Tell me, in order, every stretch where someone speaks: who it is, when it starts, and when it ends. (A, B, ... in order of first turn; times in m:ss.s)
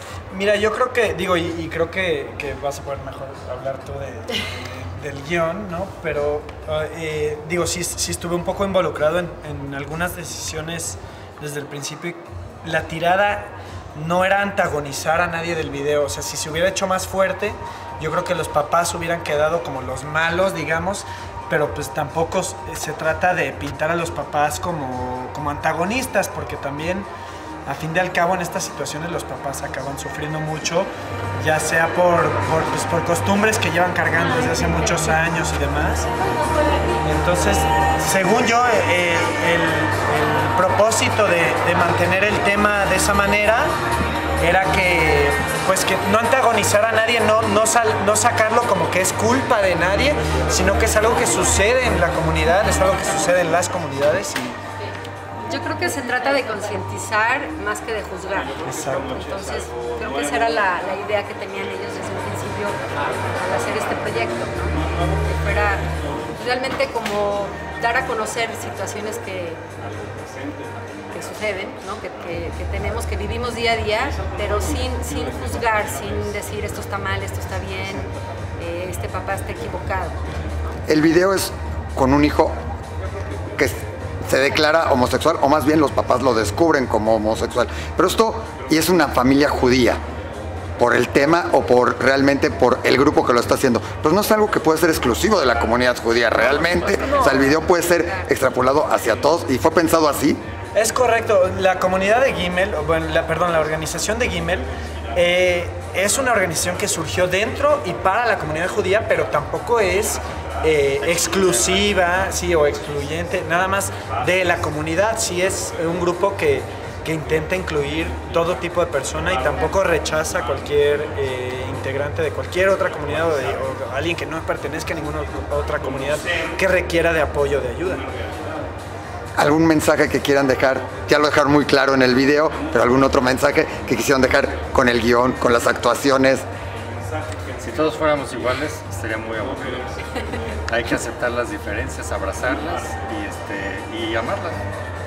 0:00.3-0:27.1 A
0:27.6-0:36.1 A
0:36.4-0:36.8 B
0:37.0-0:43.7 A
0:44.4-0:54.6 A
0:55.4-1:09.6 B
0:58.6-0:59.1 A
1:11.0-1:20.2 B
1:20.9-1:22.6 C
1:23.6-1:30.0 C
1:30.8-1:40.4 C
1:37.0-1:38.3 B
1:40.7-2:08.1 A
2:09.4-2:16.4 C
2:17.6-2:20.2 D
2:20.7-2:24.6 D